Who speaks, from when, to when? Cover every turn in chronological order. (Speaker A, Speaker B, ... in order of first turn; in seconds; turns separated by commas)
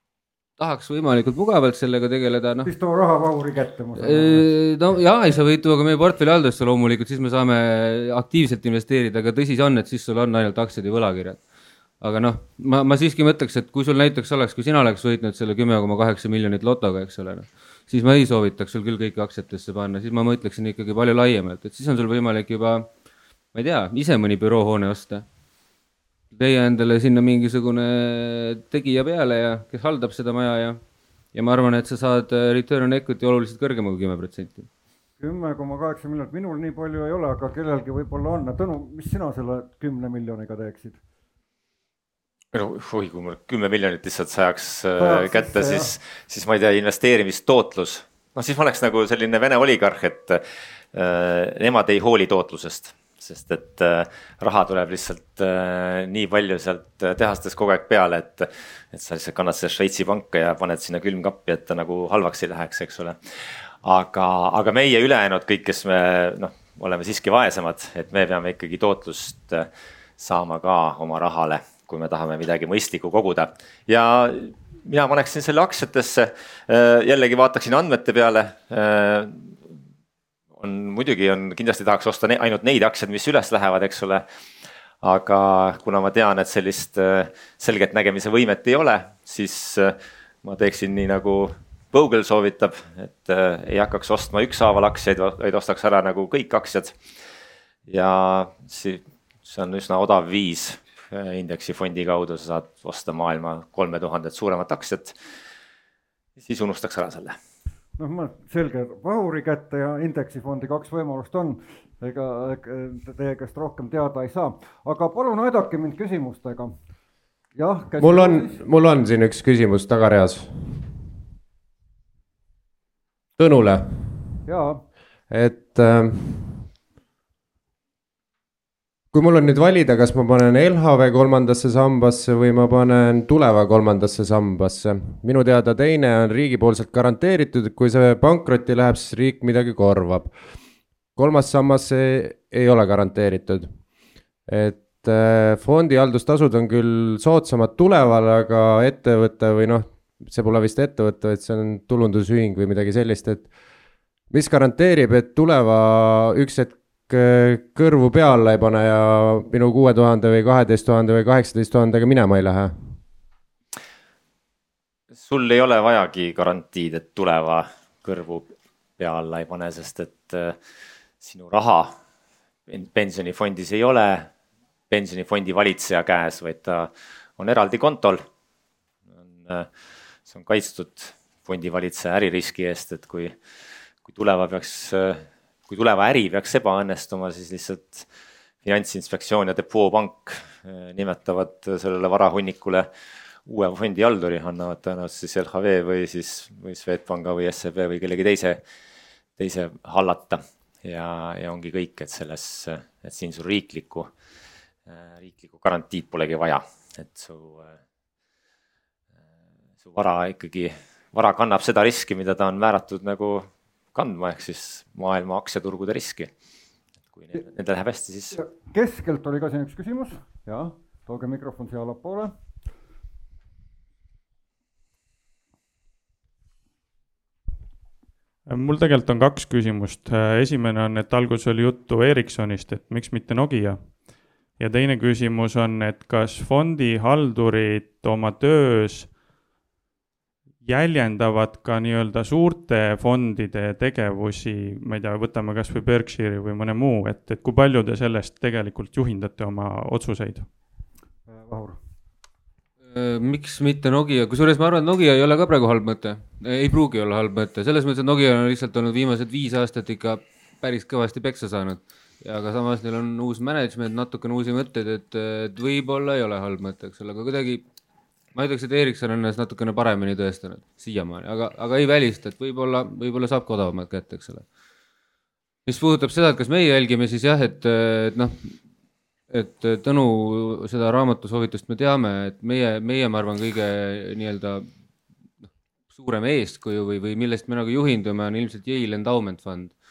Speaker A: 0.6-2.7, Speaker B: 2.6-4.5, Speaker A: 4.0-11.5, Speaker A: 12.0-22.9, Speaker A: 23.5-25.3, Speaker A: 26.3-30.8, Speaker A: 31.3-34.7, Speaker B: 35.2-41.0, Speaker C: 42.5-50.4, Speaker B: 45.0-46.0, Speaker C: 50.9-69.7, Speaker C: 70.2-79.6, Speaker C: 80.6-84.2, Speaker C: 85.0-97.0, Speaker C: 97.9-105.2, Speaker C: 106.4-107.4, Speaker B: 108.0-116.8, Speaker B: 117.5-118.6, Speaker D: 118.0-120.9, Speaker D: 123.4-124.4, Speaker B: 124.5-124.9, Speaker D: 125.3-126.7, Speaker D: 129.1-140.4, Speaker D: 141.2-143.8, Speaker D: 144.5-153.5, Speaker D: 154.3-163.0, Speaker C: 165.1-170.6, Speaker C: 171.2-172.0, Speaker C: 172.7-174.3, Speaker C: 174.9-178.2, Speaker C: 179.4-179.7, Speaker C: 180.3-183.3, Speaker C: 184.1-188.1, Speaker C: 188.6-192.9, Speaker C: 193.5-198.6, Speaker C: 199.4-204.1, Speaker C: 204.9-207.8, Speaker C: 209.8-216.3, Speaker C: 217.1-218.4, Speaker B: 218.3-222.3, Speaker E: 228.5-239.2, Speaker E: 240.6-250.5, Speaker B: 251.3-251.8, Speaker A: 252.9-267.6, Speaker A: 268.3-274.5, Speaker A: 275.7-278.6, Speaker A: 279.3-284.7, Speaker A: 285.4-289.8